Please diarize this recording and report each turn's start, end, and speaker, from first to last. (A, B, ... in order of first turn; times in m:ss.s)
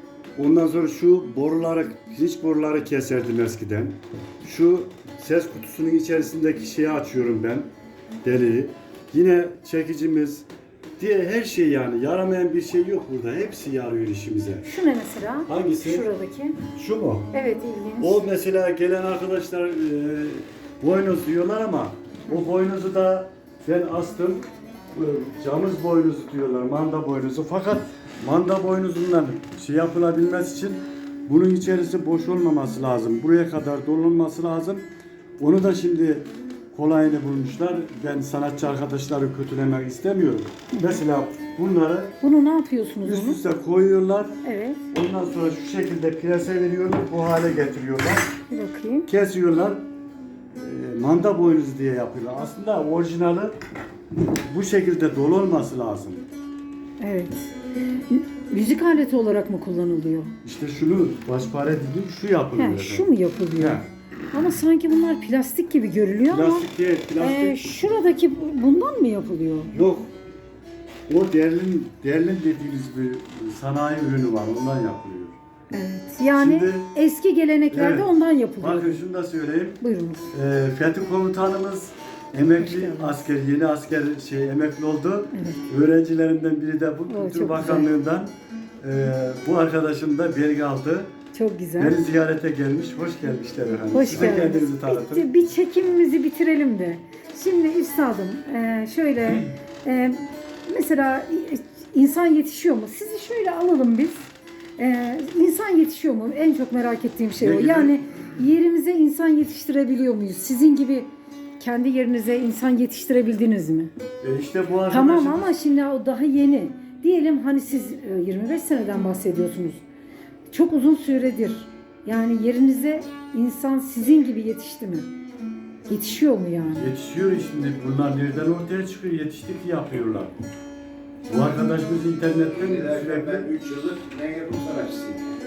0:00.4-0:07.7 A
0:08.2-0:10.5 A
0:11.0-0:14.7 A
0:14.6-0:16.6 B
0:15.5-0:16.1 A
0:16.6-0:17.3 A
0:17.3-0:18.2 B
0:18.0-0:34.9 A
0:35.4-0:42.2 A
0:40.7-0:41.0 B
0:42.2-0:43.4 B
0:43.0-0:44.4 A
0:44.4-0:44.8 B
0:44.9-0:48.3 A
0:48.5-0:49.1 B
0:49.1-0:49.9 A
0:50.6-0:53.6 A
0:54.5-0:56.3 A
0:57.0-0:57.5 B
0:58.1-1:00.3 B
1:00.4-1:03.1 A
1:02.6-1:06.7 B
1:03.6-1:03.9 A
1:06.3-1:07.7 A
1:07.2-1:09.8 B
1:09.7-1:10.1 A
1:11.1-1:15.4 A
1:15.7-1:19.0 B
1:16.3-1:16.9 A
1:17.7-1:18.1 A
1:18.6-1:19.8 A
1:19.8-1:20.3 B
1:20.3-1:31.1 A
1:22.6-1:23.3 B
1:25.3-1:25.6 B
1:27.1-1:27.9 B
1:31.3-1:32.0 B
1:31.8-1:35.2 A
1:33.9-1:44.3 B
1:44.8-1:53.9 B
1:47.4-1:48.0 A
1:54.2-1:55.5 A
1:54.9-1:59.8 B
2:00.5-2:05.1 B
2:05.9-2:06.9 B
2:06.7-2:10.3 A
2:11.3-2:13.5 A
2:12.6-2:15.3 C